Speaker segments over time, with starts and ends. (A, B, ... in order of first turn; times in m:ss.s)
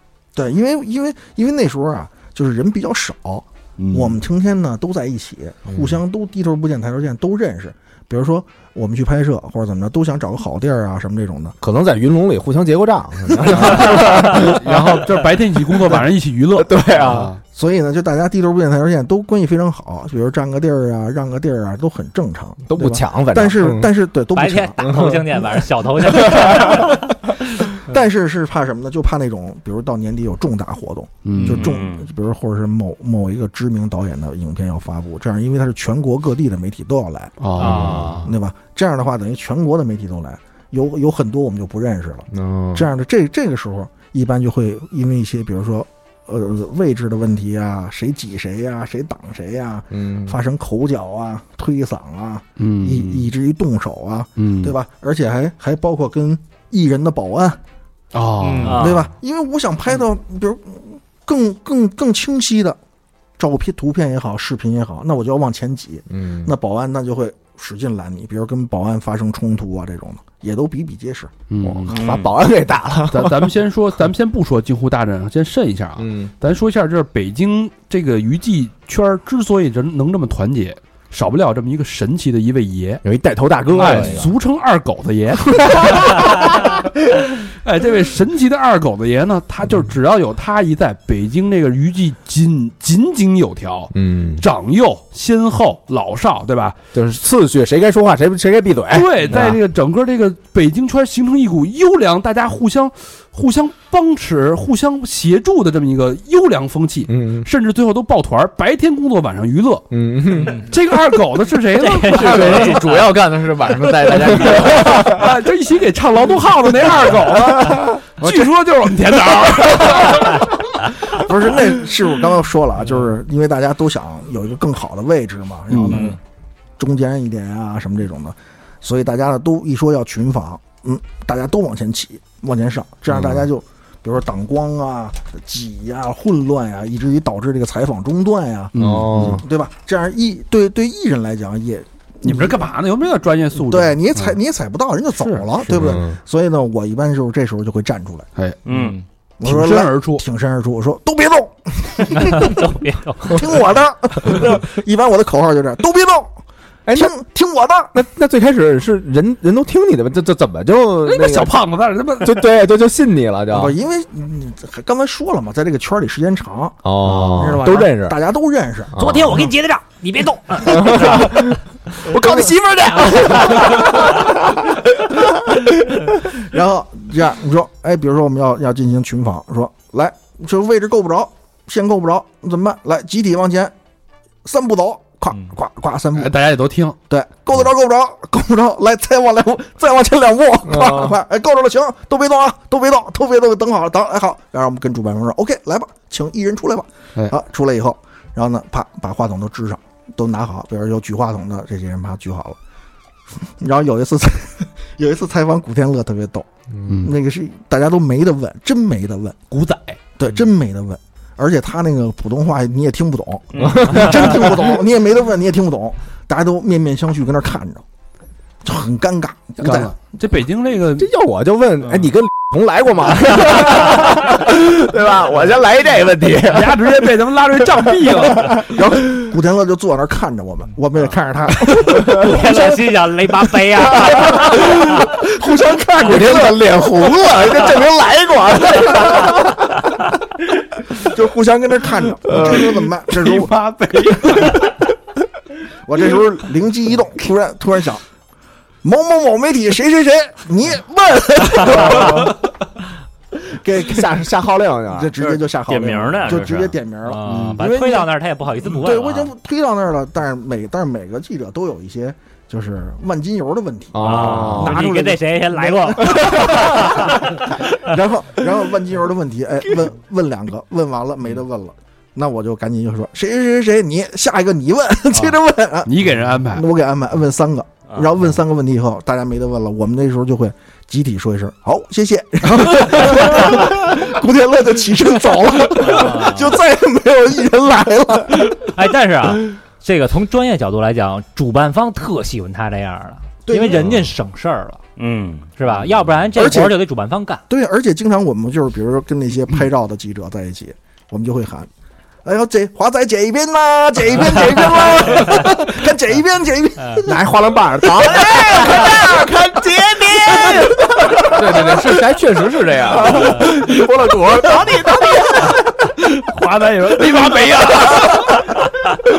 0:00.3-0:11.6 A
0:03.8-0:04.2 B
0:05.7-0:06.0 C
0:11.6-0:15.1 C
0:13.5-0:13.9 A
0:13.6-0:17.4 B
0:16.6-0:17.3 C
0:17.5-0:25.2 A
0:22.7-0:23.9 C
0:24.3-0:27.1 D
0:24.8-0:25.4 C
0:26.1-0:26.4 C
0:26.3-0:26.9 A
0:27.7-0:57.6 A
0:31.2-0:31.7 B
0:31.5-0:32.0 E
0:37.4-0:38.3 B
0:37.6-0:38.2 D
0:37.6-0:38.1 C
0:42.3-0:42.9 C
0:49.9-0:50.4 C
0:52.6-0:53.3 B
0:54.4-0:54.7 B
0:58.1-0:59.0 B
0:58.4-0:59.0 E
0:58.7-1:02.8 A
1:03.4-1:11.3 A
1:06.1-1:06.5 C
1:11.5-1:12.1 B
1:11.6-1:13.6 C
1:11.9-1:12.3 E
1:13.1-1:23.0 B
1:16.0-1:16.3 C
1:23.0-1:24.3 C
1:23.7-1:36.8 B
1:25.5-1:26.4 C
1:33.9-1:34.4 C
1:36.9-1:39.6 C
1:38.9-1:49.9 B
1:47.1-1:47.5 C
1:49.9-1:50.6 C
1:50.4-1:50.7 D
1:50.5-1:53.0 B
1:51.8-1:52.9 D
1:52.1-1:55.1 F
1:54.3-2:00.6 B
1:57.5-1:58.0 C
1:58.2-1:58.5 A
1:59.8-2:00.2 A
2:01.1-2:06.2 A
2:05.7-2:06.1 B
2:06.8-2:22.6 A
2:18.7-2:19.4 B
2:18.8-2:19.4 C
2:22.2-2:24.4 B
2:23.6-2:28.3 A
2:25.2-2:25.9 B
2:25.7-2:26.2 C
2:28.4-2:30.2 B
2:28.6-2:29.0 E
2:29.4-2:36.3 A
2:32.2-2:33.4 D
2:36.8-2:37.1 C
2:36.9-2:37.9 A
2:37.9-2:43.7 C
2:41.0-2:42.5 B
2:43.5-2:48.9 A
2:46.8-2:48.2 C
2:47.1-2:47.4 B
2:48.9-2:49.5 C
2:49.0-2:51.4 D
2:50.6-2:54.4 C
2:56.2-3:03.7 A
3:04.4-3:06.3 A
3:06.2-3:07.0 B
3:07.1-3:22.6 A
3:10.7-3:11.1 C
3:23.4-3:26.5 A
3:26.7-3:27.0 C
3:26.9-3:27.1 B
3:27.0-3:29.4 A
3:29.5-3:30.0 B
3:30.2-3:37.8 A
3:33.5-3:34.1 E
3:33.6-3:34.6 C
3:38.6-3:39.9 A
3:39.6-3:41.1 B
3:41.0-3:47.2 C
3:46.4-3:48.7 B
3:47.8-3:48.5 C
3:48.7-3:52.7 A
3:51.9-3:52.2 C
3:52.1-3:54.8 D
3:54.0-3:54.7 C
3:54.1-3:56.6 A
3:56.0-4:00.0 C
4:01.0-4:03.6 A
4:02.3-4:02.7 C
4:02.4-4:04.8 B
4:04.2-4:04.6 A
4:05.8-4:08.0 A
4:08.8-4:12.4 A
4:13.5-4:14.2 A
4:13.8-4:15.1 C
4:14.9-4:18.1 A
4:15.2-4:16.8 E
4:17.0-4:19.3 D
4:17.3-4:17.6 B
4:18.6-4:48.7 A
4:23.9-4:24.8 C
4:24.0-4:24.6 E
4:24.1-4:27.4 D
4:35.8-4:36.6 B
4:45.8-4:46.5 D
4:48.6-4:54.8 D
4:53.4-4:54.0 A
4:55.0-4:55.5 E
4:55.6-4:57.4 D
4:56.4-4:56.8 A
4:57.5-5:01.7 A
5:02.2-5:07.2 A
5:04.3-5:04.8 C
5:07.0-5:12.1 C
5:08.4-5:09.6 F
5:11.3-5:14.9 F
5:12.9-5:15.6 C
5:16.0-5:18.6 B